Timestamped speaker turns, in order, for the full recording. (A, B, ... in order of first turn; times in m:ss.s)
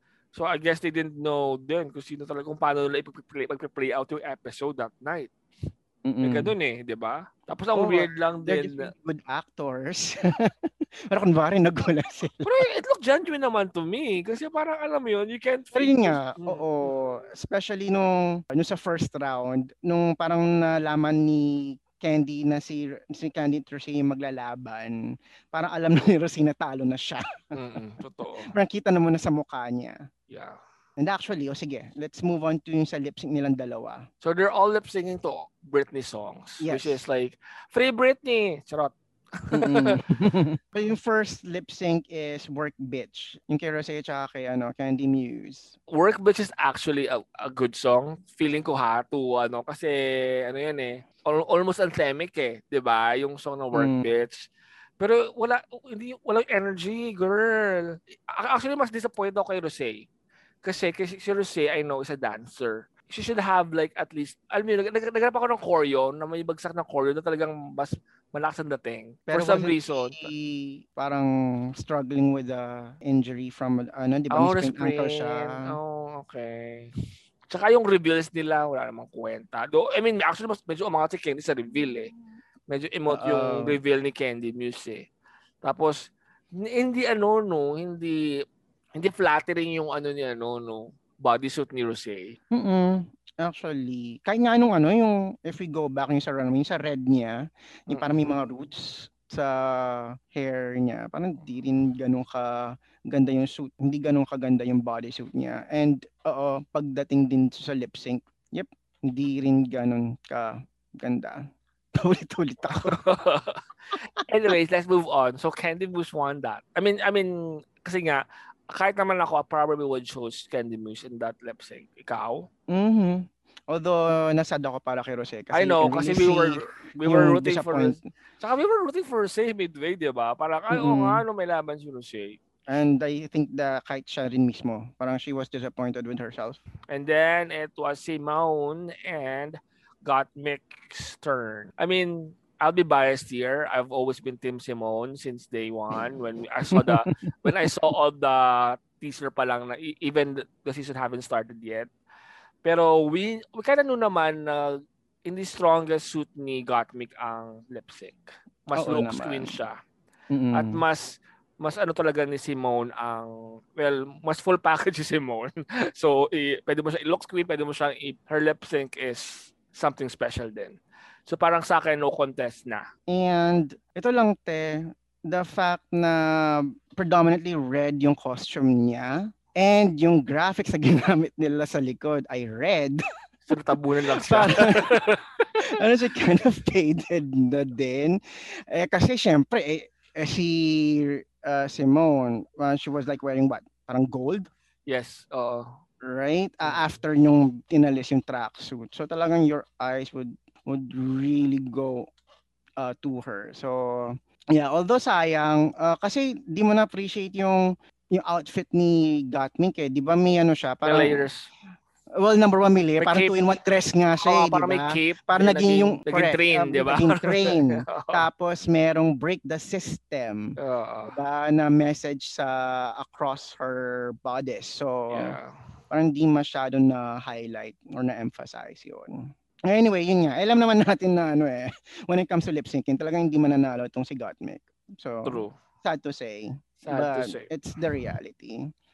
0:00.3-0:05.3 A
0:06.0-0:06.5 B
0:06.2-0:08.9 A
0:07.8-0:12.5 B
0:12.4-0:16.9 A
0:15.8-0:27.6 B
0:27.5-0:28.6 A
0:28.5-0:30.0 B
0:30.3-0:30.6 A
0:31.0-0:34.1 B
0:34.2-0:40.0 A
0:36.6-0:37.0 B
0:39.5-0:45.8 B
0:45.9-1:00.1 A
0:53.7-0:54.0 B
1:00.6-1:10.3 A
1:09.3-1:15.8 B
1:14.3-1:16.9 A
1:17.5-1:22.1 A
1:22.7-1:25.1 A
1:23.1-1:23.8 B
1:25.6-1:28.2 A
1:29.0-1:32.4 A
1:32.5-1:53.0 B
1:37.9-1:38.2 A
1:52.7-2:02.5 A
2:02.7-2:08.0 B
2:05.5-2:12.4 A
2:10.7-2:11.2 B
2:12.7-2:16.6 B
2:16.9-2:31.9 A
2:26.7-2:27.7 B
2:32.6-2:39.8 A
2:38.7-2:39.6 B
2:40.3-2:40.8 B
2:40.5-2:52.9 A
2:53.1-3:03.0 B
3:03.5-3:05.3 A
3:04.2-3:05.0 B
3:05.6-3:14.5 B
3:14.9-3:15.8 A
3:16.0-3:22.1 B
3:22.8-3:31.3 B
3:30.8-3:31.5 A
3:32.2-3:40.6 B
3:33.0-3:33.4 A
3:34.2-3:38.3 A
3:40.6-3:41.2 A
3:41.1-3:45.4 B
3:45.1-3:45.6 A
3:45.9-3:58.7 B
3:55.2-3:55.5 A
3:56.8-3:57.5 A